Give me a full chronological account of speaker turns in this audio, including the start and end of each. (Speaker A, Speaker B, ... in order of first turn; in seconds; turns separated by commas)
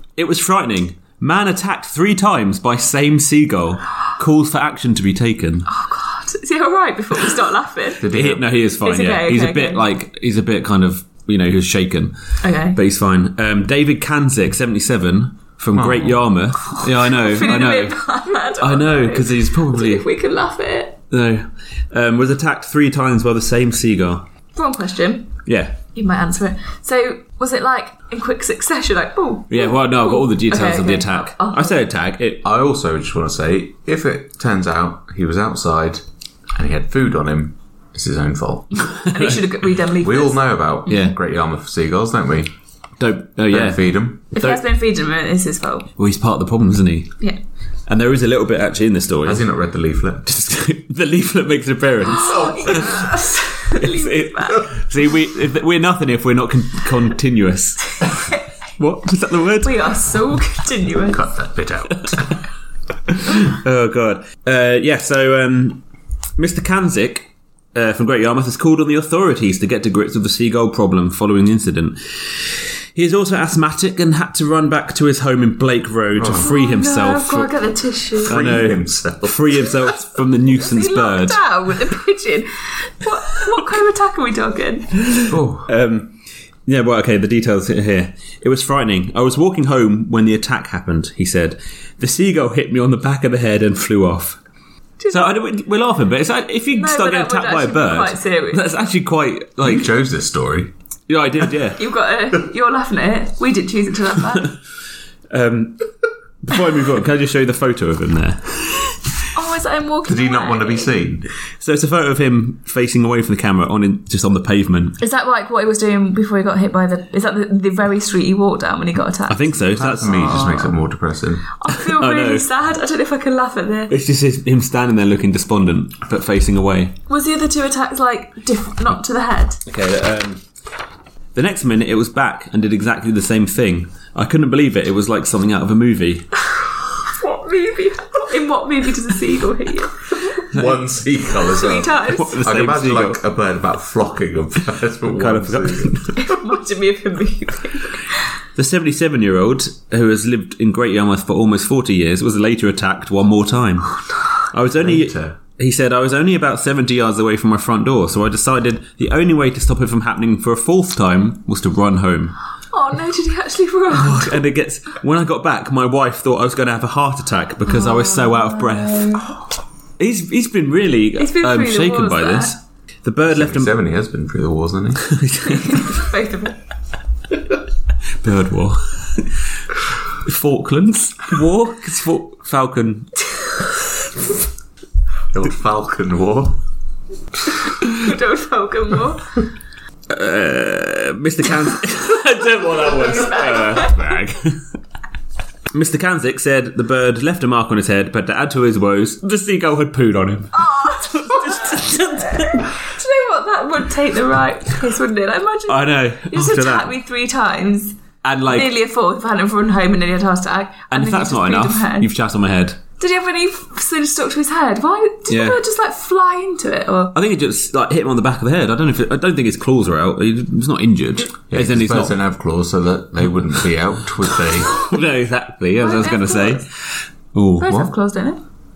Speaker A: 0.2-5.7, Speaker B: 5.7-8.1, Speaker C: 8.0-8.4, Speaker A: 8.1-17.9, Speaker B: 8.8-9.8, Speaker B: 12.4-12.8, Speaker C: 15.7-16.2, Speaker B: 16.7-21.0, Speaker A: 18.6-20.0, Speaker A: 21.1-24.2, Speaker B: 24.5-25.3, Speaker A: 25.4-25.8, Speaker B: 25.9-31.8, Speaker A: 29.5-32.4, Speaker C: 32.4-36.0, Speaker C: 36.5-38.9, Speaker A: 39.0-39.4, Speaker B: 39.0-40.4, Speaker C: 40.0-42.5, Speaker A: 40.9-41.1, Speaker A: 43.0-44.6, Speaker C: 43.5-44.2, Speaker B: 44.3-45.9, Speaker A: 46.0-47.2, Speaker A: 47.9-49.4, Speaker C: 49.2-50.3, Speaker A: 50.2-53.1, Speaker B: 52.0-54.7, Speaker C: 52.4-53.0, Speaker A: 53.7-58.1, Speaker B: 58.0-58.4, Speaker A: 58.8-59.9, Speaker B: 59.6-61.3, Speaker C: 61.1-62.3, Speaker A: 61.9-62.3, Speaker A: 63.1-65.8, Speaker A: 66.4-77.5, Speaker C: 76.1-76.5, Speaker B: 76.4-78.4, Speaker C: 78.2-79.7, Speaker A: 78.2-81.4, Speaker B: 80.5-84.9, Speaker A: 85.0-94.4, Speaker C: 85.3-85.7, Speaker B: 95.0-95.3, Speaker A: 95.1-99.9, Speaker B: 96.7-98.8, Speaker C: 99.6-100.7, Speaker A: 101.1-101.8, Speaker B: 101.8-104.6, Speaker A: 105.3-105.9, Speaker A: 106.4-109.0, Speaker B: 109.3-110.9, Speaker C: 110.0-111.2, Speaker A: 111.6-115.0, Speaker B: 115.0-120.7, Speaker A: 119.3-120.6, Speaker C: 119.8-121.5, Speaker B: 121.6-123.9, Speaker A: 121.8-122.5, Speaker A: 123.9-127.0, Speaker B: 127.1-129.6, Speaker A: 129.7-130.4, Speaker A: 131.3-136.3, Speaker B: 137.1-140.5, Speaker C: 140.5-146.1, Speaker A: 140.5-140.8, Speaker B: 141.4-142.4, Speaker A: 142.1-143.2, Speaker A: 145.1-146.3, Speaker B: 146.2-148.2, Speaker A: 148.6-162.3, Speaker C: 154.8-155.4, Speaker B: 162.7-164.4, Speaker A: 163.9-169.3, Speaker B: 167.7-169.3, Speaker A: 170.0-173.7, Speaker B: 171.2-172.5, Speaker C: 173.3-175.1, Speaker A: 175.0-176.1, Speaker B: 175.5-176.5, Speaker A: 178.2-179.3, Speaker A: 180.2-183.1, Speaker C: 185.3-186.6, Speaker B: 187.8-189.3, Speaker A: 190.1-194.6, Speaker B: 193.1-193.8, Speaker A: 195.7-202.7, Speaker B: 200.6-207.9, Speaker A: 205.7-206.9, Speaker A: 208.2-208.7, Speaker B: 208.4-212.1, Speaker A: 210.9-212.8, Speaker B: 213.0-217.1, Speaker A: 215.3-215.6, Speaker A: 217.1-222.2, Speaker C: 221.5-224.8, Speaker A: 224.6-226.7, Speaker B: 225.8-226.6, Speaker A: 227.3-227.9, Speaker B: 227.6-228.4